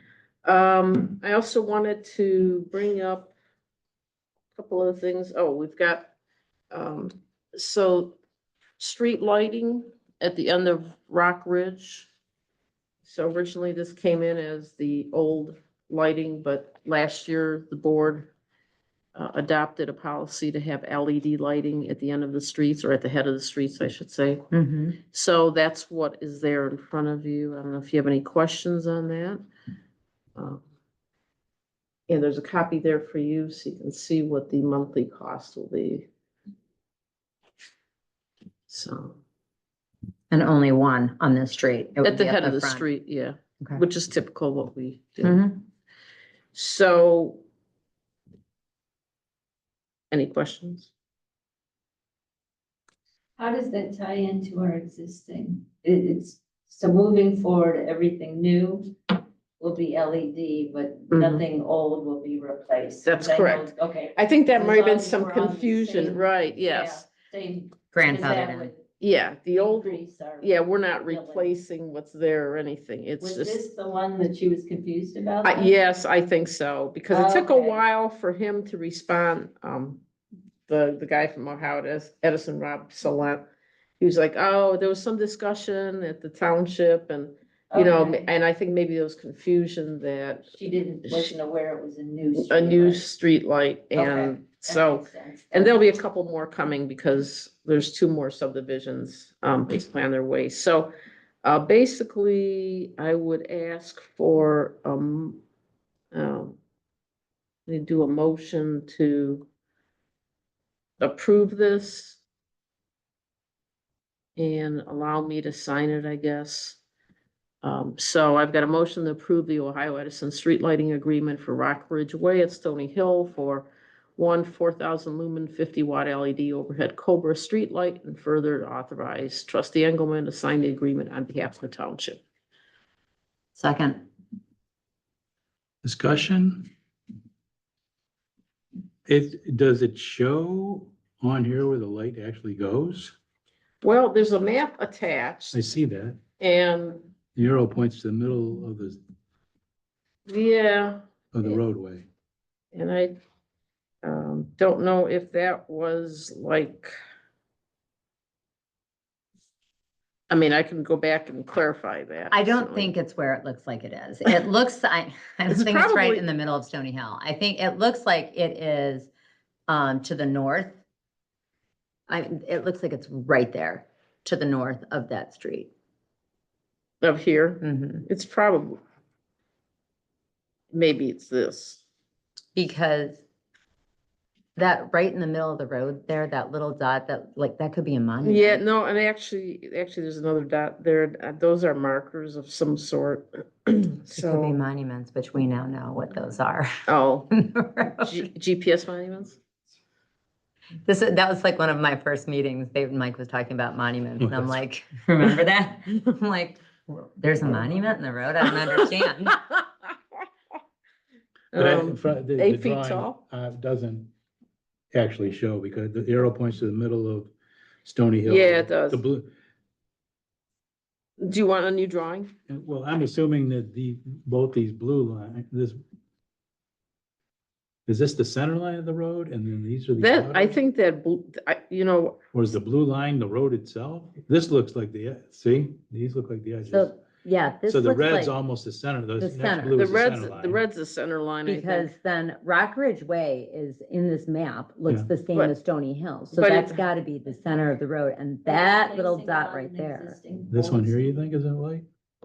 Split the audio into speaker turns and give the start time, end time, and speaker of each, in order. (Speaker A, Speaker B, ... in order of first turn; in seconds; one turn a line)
Speaker A: 0.4-3.3
Speaker A: 4.5-6.1
Speaker A: 6.7-8.2
Speaker A: 8.8-12.1
Speaker A: 13.1-18.3
Speaker A: 19.1-24.4
Speaker B: 24.5-25.0
Speaker A: 25.1-29.4
Speaker A: 30.4-30.6
Speaker A: 32.1-36.1
Speaker A: 38.7-39.2
Speaker B: 40.3-42.9
Speaker A: 42.0-45.4
Speaker B: 45.2-45.6
Speaker A: 46.5-47.4
Speaker A: 50.1-50.9
Speaker C: 53.4-58.9
Speaker C: 59.6-68.8
Speaker A: 61.1-61.4
Speaker A: 63.0-67.1
Speaker B: 67.9-68.7
Speaker A: 69.0-73.6
Speaker C: 69.5-71.5
Speaker C: 73.2-75.7
Speaker A: 75.4-80.0
Speaker C: 77.1-77.8
Speaker A: 80.7-83.4
Speaker A: 84.0-90.5
Speaker C: 87.7-88.2
Speaker C: 90.5-93.0
Speaker A: 91.0-91.3
Speaker A: 92.3-100.9
Speaker C: 93.9-95.7
Speaker A: 101.4-105.4
Speaker A: 106.1-106.6
Speaker A: 107.7-109.5
Speaker A: 111.0-112.2
Speaker A: 114.4-116.8
Speaker A: 117.6-132.2
Speaker B: 133.6-134.0
Speaker D: 135.8-136.7
Speaker D: 139.1-143.1
Speaker A: 143.8-145.6
Speaker D: 145.5-146.2
Speaker A: 146.4-147.1
Speaker D: 147.3-149.0
Speaker A: 150.3-151.6
Speaker D: 151.3-152.1
Speaker A: 152.7-153.2
Speaker A: 154.0-156.9
Speaker A: 160.3-162.9
Speaker B: 162.3-169.1
Speaker A: 165.5-166.3
Speaker B: 169.7-170.8
Speaker B: 172.1-175.7
Speaker A: 177.0-178.8
Speaker B: 177.6-178.1
Speaker A: 180.7-181.8
Speaker B: 182.5-183.2
Speaker B: 184.5-188.6
Speaker A: 188.2-194.6
Speaker B: 194.2-196.7
Speaker A: 196.9-197.3
Speaker B: 197.3-198.1
Speaker A: 198.0-199.4
Speaker B: 200.8-209.4
Speaker D: 204.2-204.6
Speaker A: 208.4-209.6
Speaker A: 211.5-213.2
Speaker D: 211.6-214.1
Speaker D: 214.9-217.3
Speaker D: 217.8-219.3
Speaker A: 218.2-219.0
Speaker A: 221.2-222.3
Speaker D: 222.5-225.8
Speaker D: 227.9-230.6
Speaker A: 230.0-232.2
Speaker D: 232.3-236.9
Speaker B: 236.7-238.3
Speaker D: 237.7-240.6
Speaker B: 239.2-239.9
Speaker A: 239.7-241.9
Speaker B: 241.4-250.2
Speaker A: 246.3-246.8
Speaker C: 248.4-251.2
Speaker D: 250.5-251.8